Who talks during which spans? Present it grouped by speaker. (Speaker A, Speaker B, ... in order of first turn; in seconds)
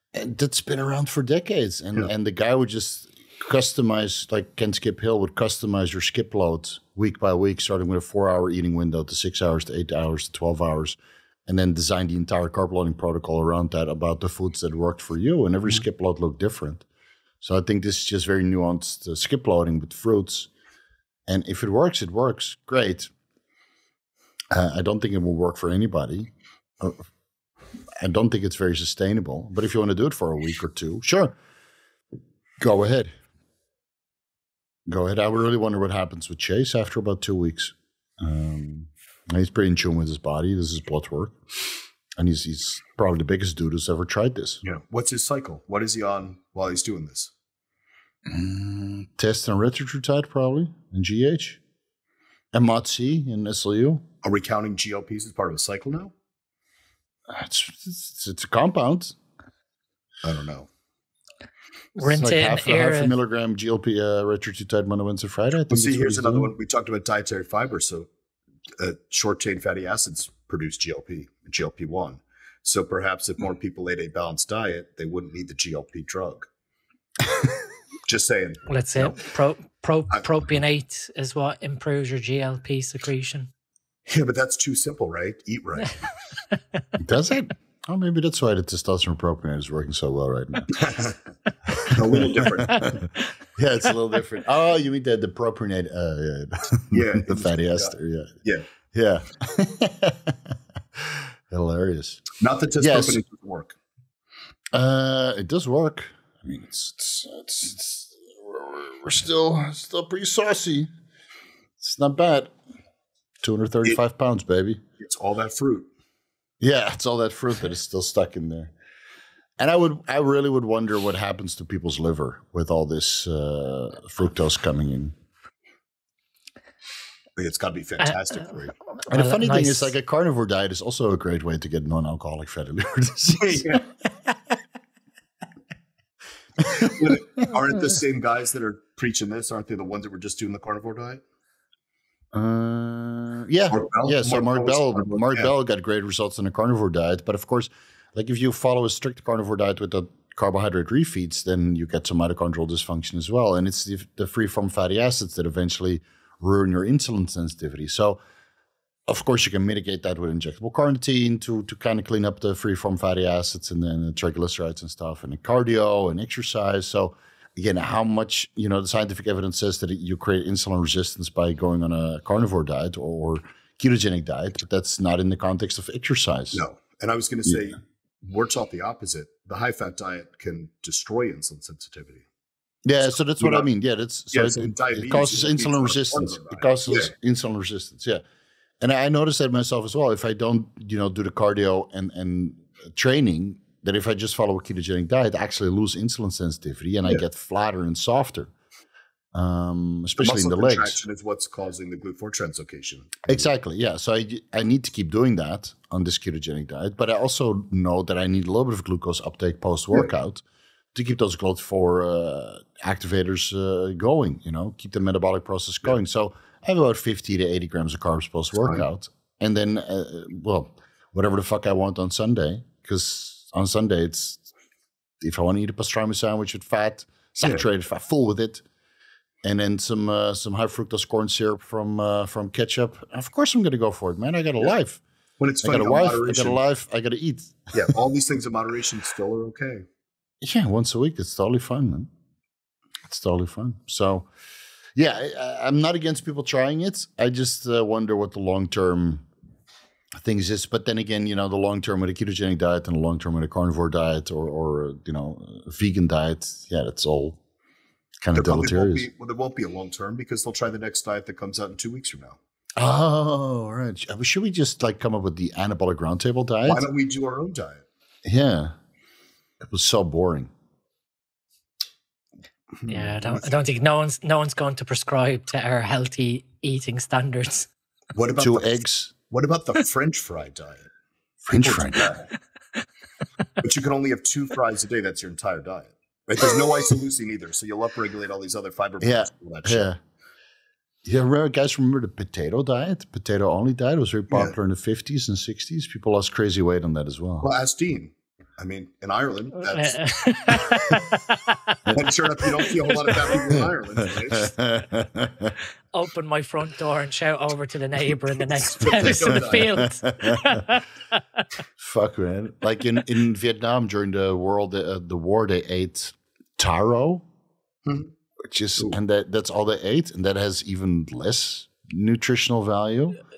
Speaker A: 0.1-16.9, 17.4-20.5, 21.3-23.1, 24.5-27.0, 28.0-31.4, 32.6-33.1, 34.9-41.4, 42.2-44.6, 48.3-51.6, 52.5-54.0, 57.3-59.2, 62.0-66.5, 87.0-90.7, 92.6-92.9, 93.6-98.4, 98.9-103.2, 104.7-110.9, 111.8-112.5, 113.4-114.8, 116.6-118.7, 119.6-125.2, 129.1-133.7, 142.3-158.2, 159.1-176.6, 182.8-188.2, 188.8-198.5, 199.3-201.0, 203.3-224.5, 225.2-228.6, 229.4-235.0, 235.6-237.7, 240.4-242.1, 243.1-244.3, 245.0-249.3, 250.2-257.4, 258.2-259.1, 262.8-266.9, 268.2-268.8, 269.6-270.5, 278.4-279.1, 281.4-282.1, 289.0-290.0, 291.1-297.5, 304.3-305.5, 311.8-317.2, 318.5-323.2
Speaker B: 44.6-47.3, 54.2-56.1, 60.2-60.7, 65.7-68.1, 68.8-76.5, 78.1-79.2, 84.1-86.0, 90.8-91.2, 91.9-93.0, 96.9-98.7, 102.4-103.8, 115.0-115.9, 127.4-128.7, 133.4-133.8, 136.8-141.2, 143.7-145.5, 176.5-182.2, 183.2-183.7, 184.3-187.1, 200.2-203.5, 235.4-236.6, 237.7-239.8, 258.3-262.4, 266.6-267.9, 272.8-273.5, 278.1-280.9, 281.5-282.3, 283.6-289.9, 294.3-294.6, 297.4-300.1, 301.9-304.5, 308.6-309.9, 317.9-318.1
Speaker C: 62.0-63.1, 78.7-83.5, 129.0-129.9, 272.9-277.7, 299.7-301.9, 302.6-303.4, 305.9-311.4